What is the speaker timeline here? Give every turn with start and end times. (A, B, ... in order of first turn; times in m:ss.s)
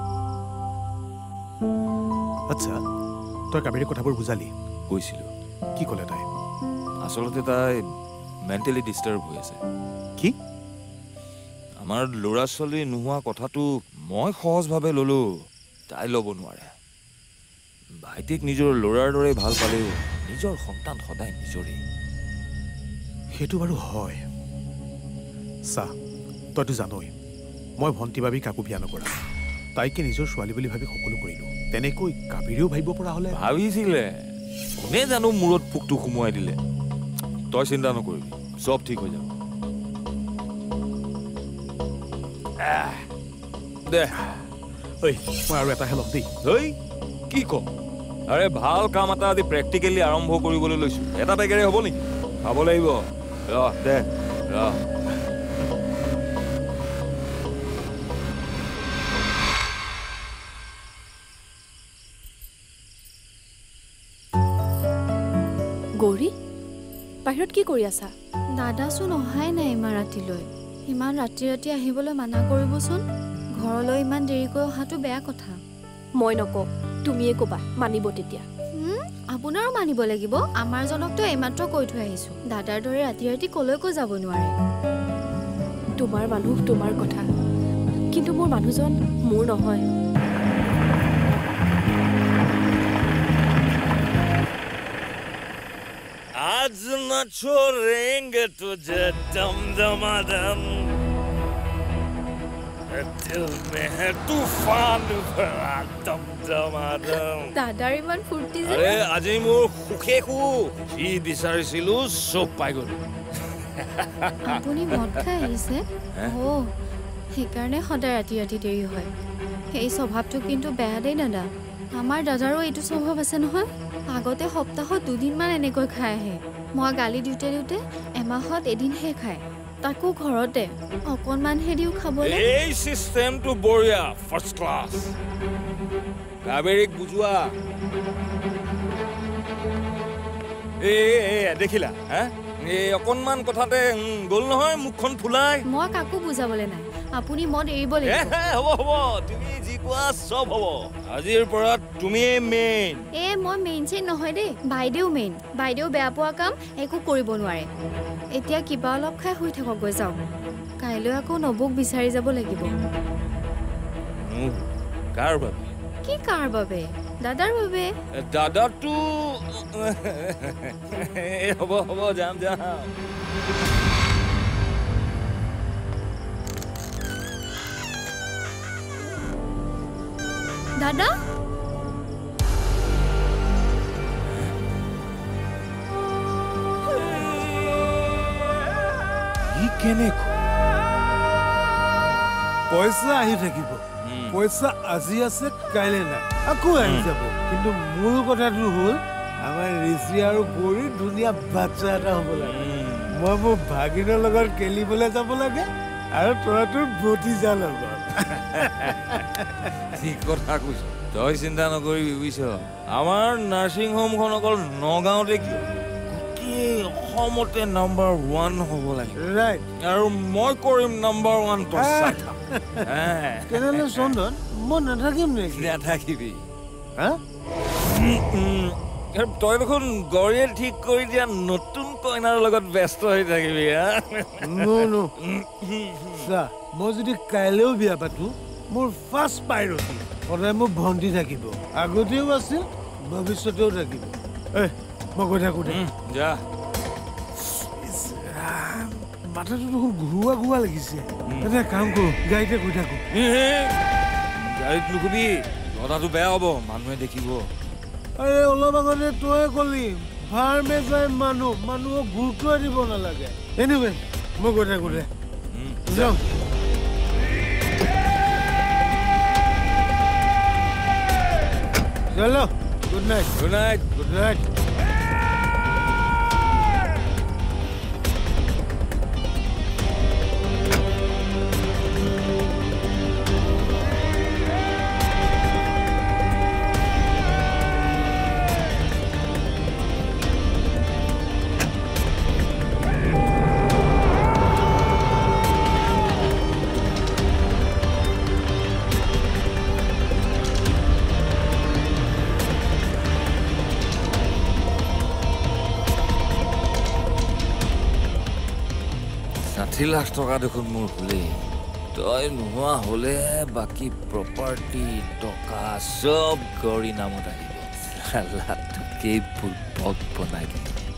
0:02.5-0:02.8 A
0:03.5-0:04.5 A
0:04.9-0:05.3 B
0:05.8-0:06.2 A
0:07.0-0:07.7 B
0:08.4-0:09.6 B
0:11.8-0:15.2 B
0:15.9-0:16.7 B
0:18.0-0:21.8 B
0:23.4-0:24.2 A
0:26.6-0:27.1 A
0:27.8-0:29.1 A
0:29.8-0:33.4 A
0:33.3-0:34.1 B
0:34.8-0:36.6 B
0:37.5-0:39.3 B
0:42.6-0:43.0 B
0:43.9-0:44.2 B
0:45.0-0:46.3 A
0:46.4-0:46.7 B
0:47.3-0:47.7 B
0:48.3-0:53.0 B
0:53.5-0:54.8 B
1:06.0-1:06.3 C
1:07.2-1:08.1 C
1:08.6-1:13.0 D
1:13.6-1:15.6 D
1:16.2-1:18.4 C
1:18.8-1:24.5 D
1:26.0-1:27.2 C
1:28.1-1:29.9 C
1:36.4-1:40.9 B
1:42.9-1:47.5 B
1:47.6-1:49.0 D
1:48.6-1:53.0 B
1:53.8-1:55.4 B
1:54.4-1:56.6 D
1:57.4-1:59.1 D
1:59.7-2:12.5 D
2:12.2-2:15.1 B
2:16.4-2:17.4 B
2:20.8-2:25.6 B
2:25.7-2:28.3 D
2:28.0-2:33.0 B
2:33.2-2:37.7 D
2:38.4-2:40.3 D
2:40.8-2:42.7 D
2:44.2-2:45.7 B
2:46.0-2:47.8 D
2:48.2-2:49.0 B
2:49.6-2:52.9 B
3:00.8-3:01.1 D
3:09.5-3:10.4 B
3:12.7-3:28.2 E
3:14.0-3:14.4 B
3:16.8-3:17.1 B
3:22.4-3:23.1 B
3:28.5-3:28.9 B
3:28.8-3:29.4 E
3:29.9-3:39.2 B
3:39.2-3:39.6 E
3:39.8-3:42.3 B
3:41.7-3:42.9 E
3:42.8-3:44.2 B
3:43.5-3:45.7 E
3:45.5-3:46.4 B
3:47.8-3:56.2 B
3:54.4-3:55.1 E
3:56.2-4:05.8 E
4:05.6-4:06.4 B
4:07.4-4:13.0 E
4:11.3-4:11.5 B
4:13.1-4:13.8 B
4:14.4-4:17.4 B
4:18.2-4:25.1 E
4:24.8-4:26.2 B
4:25.9-4:26.2 E
4:32.1-4:33.3 E
4:33.4-4:34.1 B
4:34.0-4:34.4 E
5:09.5-5:11.4 B
5:11.9-5:20.8 B